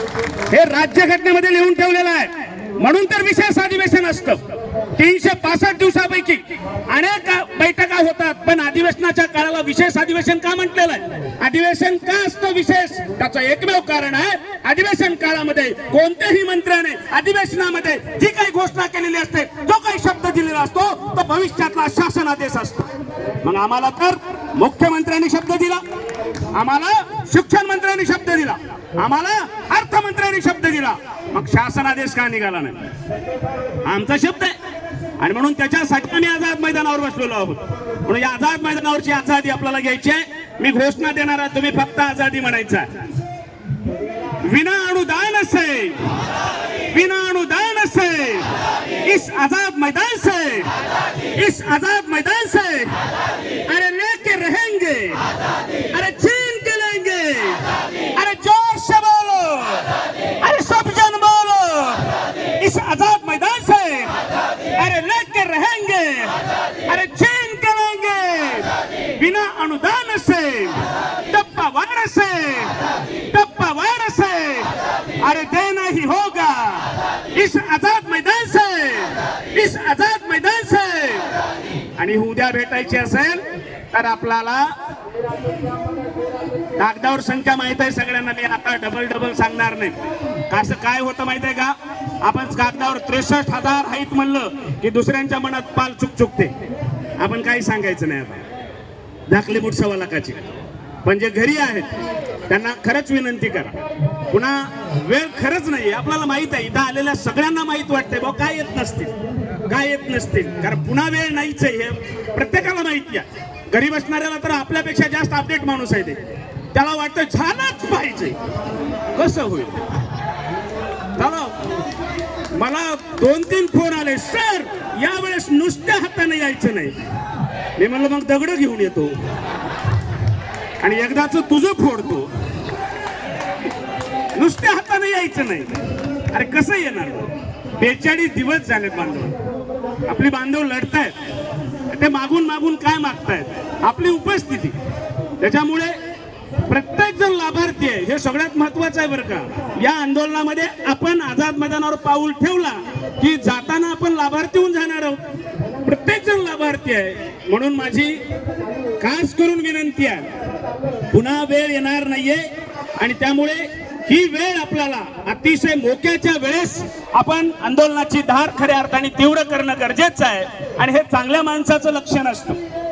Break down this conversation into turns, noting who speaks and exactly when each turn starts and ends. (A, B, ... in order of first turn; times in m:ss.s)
0:00.5-0:04.4 A
0:05.0-0:22.9 A
0:23.4-0:25.8 A
0:26.5-0:32.8 A
0:33.8-0:34.5 A
0:35.2-0:42.9 A
0:44.4-0:46.0 A
0:46.9-0:48.5 A
0:49.0-0:50.7 A
0:51.4-0:52.9 A
0:53.7-0:55.2 A
0:55.9-0:57.6 A
0:58.2-0:59.9 A
1:00.4-1:04.1 A
1:04.8-1:06.3 A
1:06.9-1:12.8 A
1:13.3-1:21.3 A
1:22.0-1:24.7 A
1:26.8-1:30.0 A
1:30.5-1:36.5 A
1:37.2-1:38.4 A
1:39.3-1:40.5 A
1:41.0-1:41.9 A
1:42.5-1:43.7 A
1:44.3-1:49.1 A
1:49.7-1:56.2 A
1:56.7-1:58.4 A
1:59.2-1:59.8 A
2:01.2-2:01.5 A
2:02.6-2:06.9 A
2:07.8-2:09.1 A
2:10.8-2:12.3 A
2:14.4-2:15.7 A
2:16.3-2:19.3 A
2:20.1-2:21.1 A
2:21.9-2:24.8 A
2:25.4-2:26.0 A
2:26.7-2:35.2 A
2:35.8-2:38.2 A
2:39.0-2:40.3 A
2:41.1-2:42.5 A
2:43.0-2:52.6 A